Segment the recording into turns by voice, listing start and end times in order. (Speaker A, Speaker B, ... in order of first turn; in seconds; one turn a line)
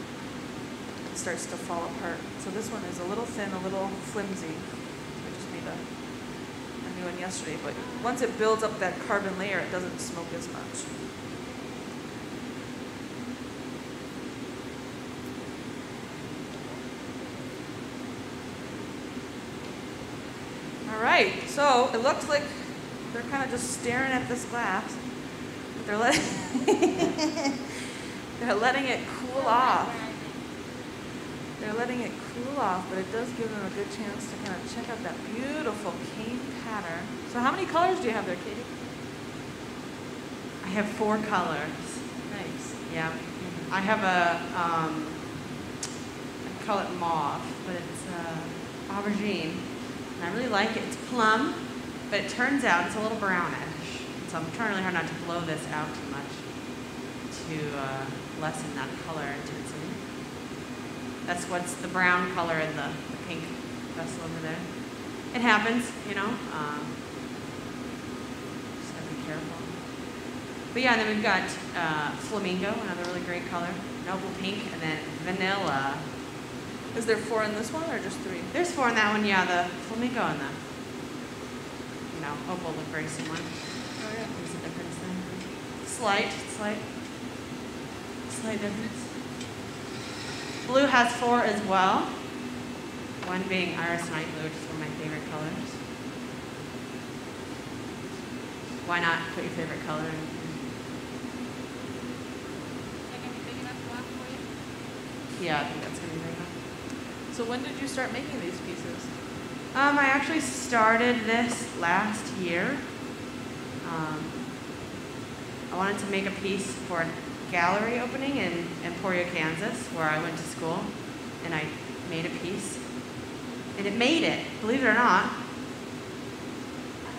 Speaker A: 1.0-6.0
Speaker A: 6.8-10.9
Speaker B: 7.7-8.2
Speaker A: 20.9-27.2
Speaker A: 28.4-30.0
Speaker B: 29.3-30.5
Speaker A: 31.6-38.7
Speaker C: 40.6-42.3
Speaker A: 42.3-42.8
Speaker C: 42.8-45.4
Speaker A: 43.4-43.7
Speaker C: 46.4-60.1
Speaker C: 61.2-67.0
Speaker C: 68.8-70.2
Speaker C: 70.7-76.1
Speaker A: 76.9-78.5
Speaker C: 78.5-80.6
Speaker C: 82.1-86.9
Speaker A: 84.0-84.3
Speaker C: 88.3-89.1
Speaker C: 90.6-92.5
Speaker C: 93.2-95.8
Speaker C: 98.8-100.7
Speaker B: 103.1-104.5
Speaker C: 105.3-106.6
Speaker A: 107.3-109.1
Speaker C: 109.7-113.1
Speaker C: 113.8-114.5
Speaker C: 115.7-125.4